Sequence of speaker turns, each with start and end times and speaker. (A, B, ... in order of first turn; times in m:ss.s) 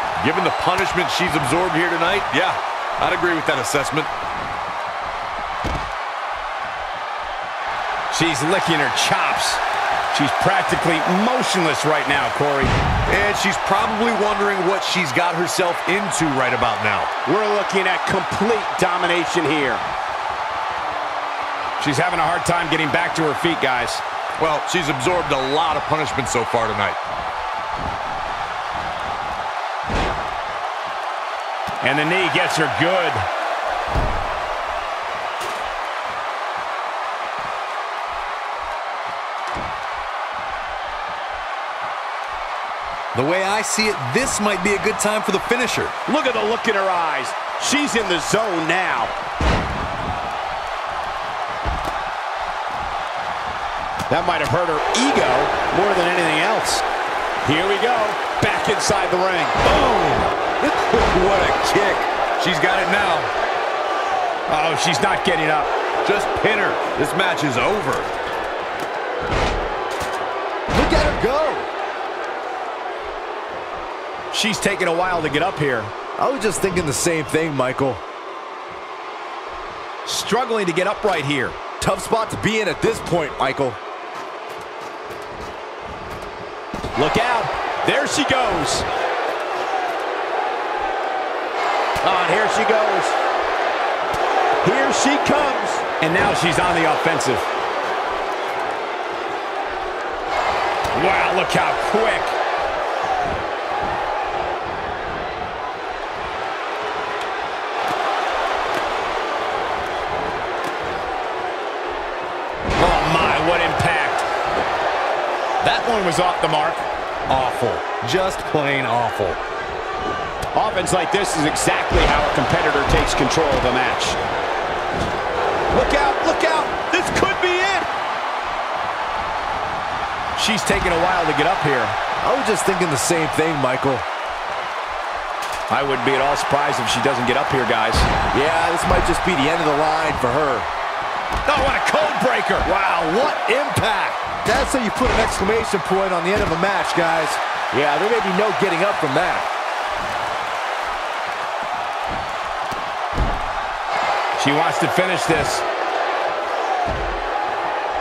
0:00.2-0:04.1 A
0:08.1-0:09.6 B
0:10.1-0:12.7 B
0:13.1-0:17.1 A
0:17.2-0:19.8 B
0:21.8-0:24.0 B
0:24.4-0:27.0 A
0:31.8-0:33.2 B
0:43.1-0:45.9 A
0:46.0-0:49.1 B
0:54.1-0:56.8 B
0:57.4-0:59.6 B
0:59.6-1:03.3 A
1:04.5-1:05.7 B
1:06.0-1:08.1 A
1:10.7-1:11.7 C
1:14.3-1:15.9 B
1:16.2-1:18.0 C
1:20.0-1:21.6 B
1:21.8-1:23.8 C
1:27.0-1:28.8 B
1:32.0-1:33.1 B
1:34.6-1:37.4 B
1:40.9-1:42.3 B
1:52.8-1:54.2 B
1:55.6-1:56.9 B
1:57.3-1:59.4 A
2:00.5-2:04.2 B
2:05.7-2:07.9 B
2:10.4-2:12.0 B
2:12.2-2:14.0 C
2:15.7-2:18.1 B
2:18.3-2:20.7 C
2:21.4-2:22.6 B
2:22.6-2:29.5 C
2:34.4-2:35.6 B